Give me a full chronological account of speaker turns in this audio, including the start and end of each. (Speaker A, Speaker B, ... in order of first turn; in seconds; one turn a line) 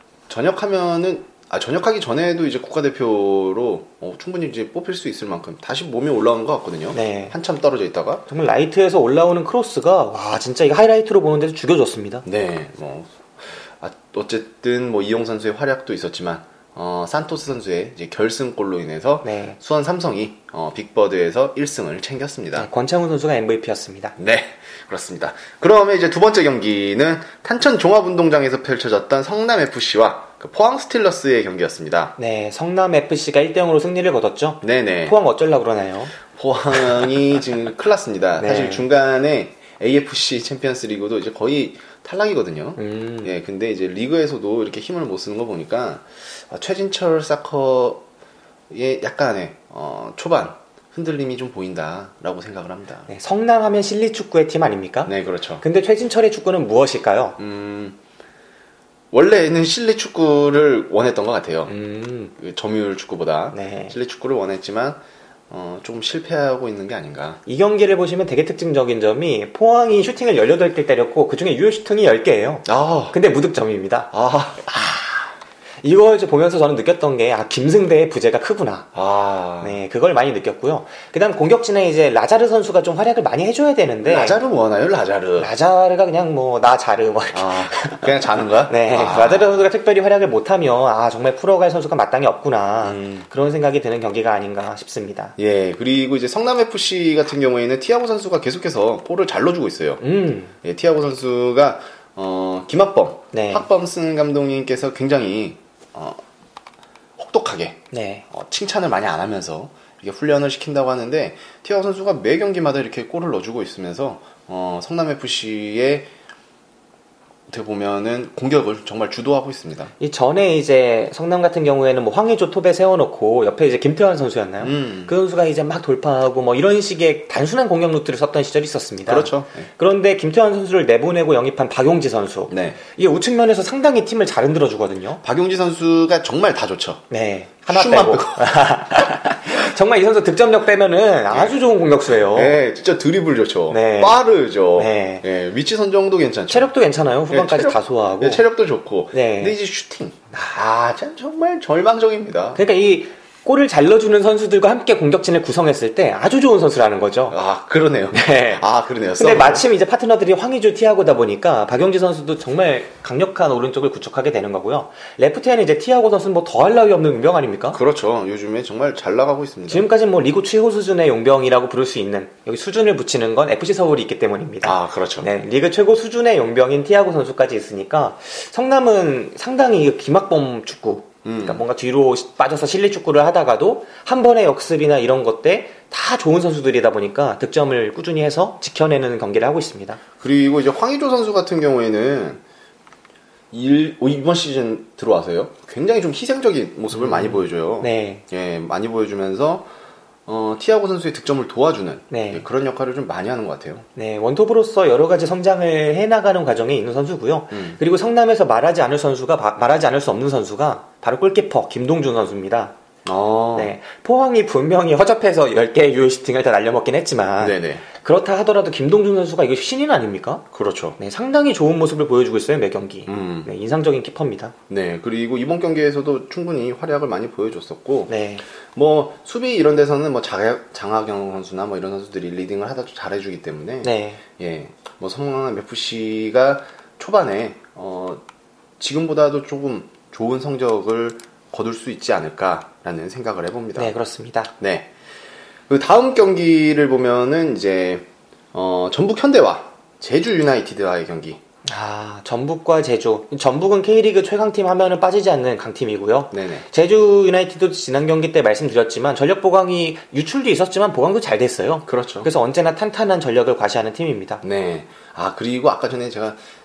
Speaker A: 0.3-8.2
Speaker B: 6.9-7.3
Speaker B: 8.3-12.2
Speaker A: 12.2-22.7
Speaker B: 19.2-19.6
Speaker B: 22.5-24.1
Speaker A: 24.2-32.1
Speaker B: 32.2-36.1
Speaker A: 34.6-35.1
Speaker A: 36.3-48.0
Speaker B: 38.4-38.9
Speaker B: 42.8-43.3
Speaker A: 48.7-53.1
Speaker B: 53.1-57.4
Speaker A: 55.1-55.6
Speaker A: 57.4-58.0
Speaker A: 59.1-61.7
Speaker B: 61.7-62.3
Speaker A: 62.4-67.4
Speaker B: 63.5-63.9
Speaker B: 67.5-74.1
Speaker A: 72.6-73.2
Speaker A: 74.1-74.7
Speaker B: 74.7-75.3
Speaker B: 75.8-78.9
Speaker A: 78.9-79.8
Speaker B: 79.6-84.4
Speaker A: 84.0-85.5
Speaker B: 85.4-95.3
Speaker A: 87.3-89.7
Speaker A: 92.8-93.3
Speaker A: 95.4-100.0
Speaker B: 100.0-100.5
Speaker A: 100.6-106.2
Speaker B: 103.3-103.7
Speaker A: 107.2-116.1
Speaker B: 107.9-108.3
Speaker A: 117.5-119.9
Speaker B: 120.0-135.2
Speaker A: 124.6-125.1
Speaker A: 129.1-129.7
Speaker A: 132.5-132.8
Speaker A: 135.2-137.0
Speaker B: 137.1-142.6
Speaker A: 137.7-138.6
Speaker A: 141.3-141.6
Speaker A: 142.3-146.7
Speaker B: 143.7-144.2
Speaker B: 144.8-145.2
Speaker B: 146.5-148.4
Speaker A: 147.3-152.6
Speaker B: 149.1-149.6
Speaker B: 152.6-157.4
Speaker A: 157.3-159.6
Speaker B: 158.1-158.6
Speaker B: 159.2-167.8
Speaker A: 167.7-169.9
Speaker B: 169.7-190.0
Speaker A: 174.6-175.3
Speaker A: 181.2-181.6
Speaker A: 190.2-192.4
Speaker A: 193.5-199.7
Speaker B: 196.9-198.2
Speaker A: 200.3-203.8
Speaker B: 202.1-202.4
Speaker B: 203.9-212.8
Speaker A: 207.5-207.8
Speaker A: 213.1-213.7
Speaker B: 213.6-220.4
Speaker A: 217.4-217.8
Speaker A: 220.5-221.0
Speaker B: 221.0-224.6
Speaker A: 223.1-223.5
Speaker A: 224.7-228.1
Speaker B: 228.1-228.4
Speaker A: 228.7-238.2
Speaker B: 233.8-234.2
Speaker A: 238.8-243.9
Speaker B: 243.8-244.5
Speaker A: 244.6-244.9
Speaker A: 245.7-251.4
Speaker B: 251.6-264.4
Speaker A: 256.3-256.6
Speaker A: 261.9-262.3
Speaker A: 264.4-266.4